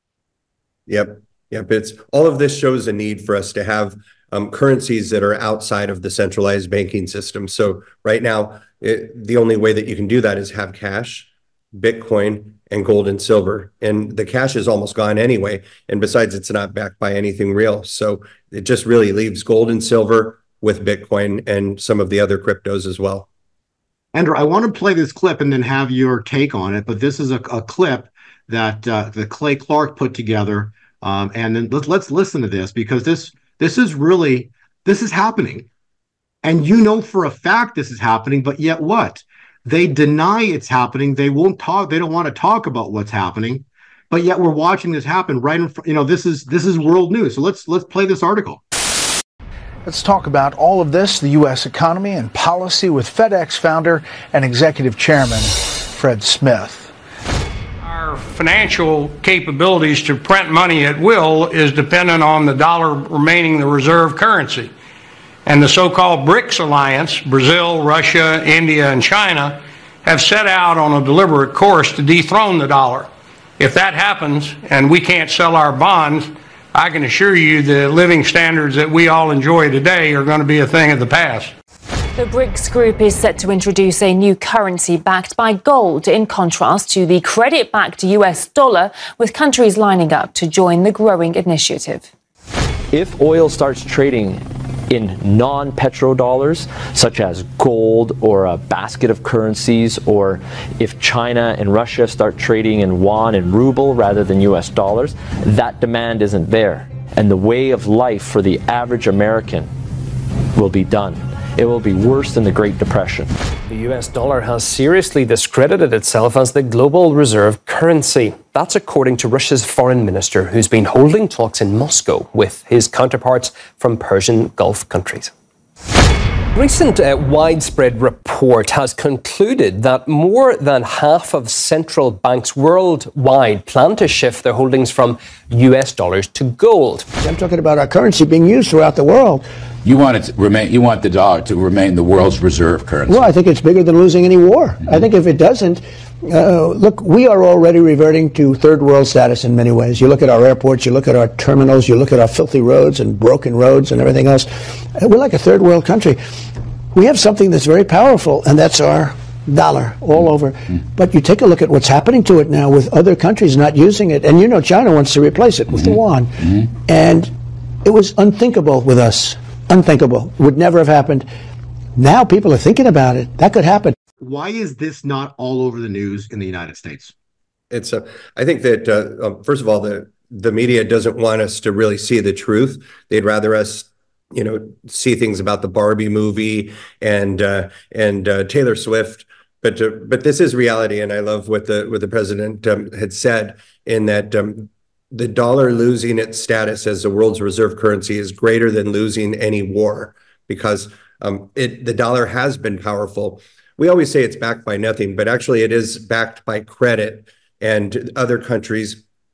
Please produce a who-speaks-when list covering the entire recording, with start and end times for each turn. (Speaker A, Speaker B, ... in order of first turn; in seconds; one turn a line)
Speaker A: 0.9-23.3
Speaker B: 24.1-35.7
Speaker B: 36.4-48.6
Speaker C: 49.9-56.9
Speaker D: 57.8-64.7
Speaker D: 65.5-81.5
Speaker E: 82.2-92.1
Speaker F: 92.9-109.7
Speaker F: 110.5-113.3
Speaker G: 113.7-125.3
Speaker G: 126.5-137.1
Speaker H: 137.2-139.4
Speaker I: 139.8-143.3
Speaker H: 143.1-156.2
Speaker H: 156.9-167.3
Speaker H: 167.8-171.3
Speaker H: 172.0-173.9
Speaker B: 174.2-177.1
Speaker A: 177.7-209.0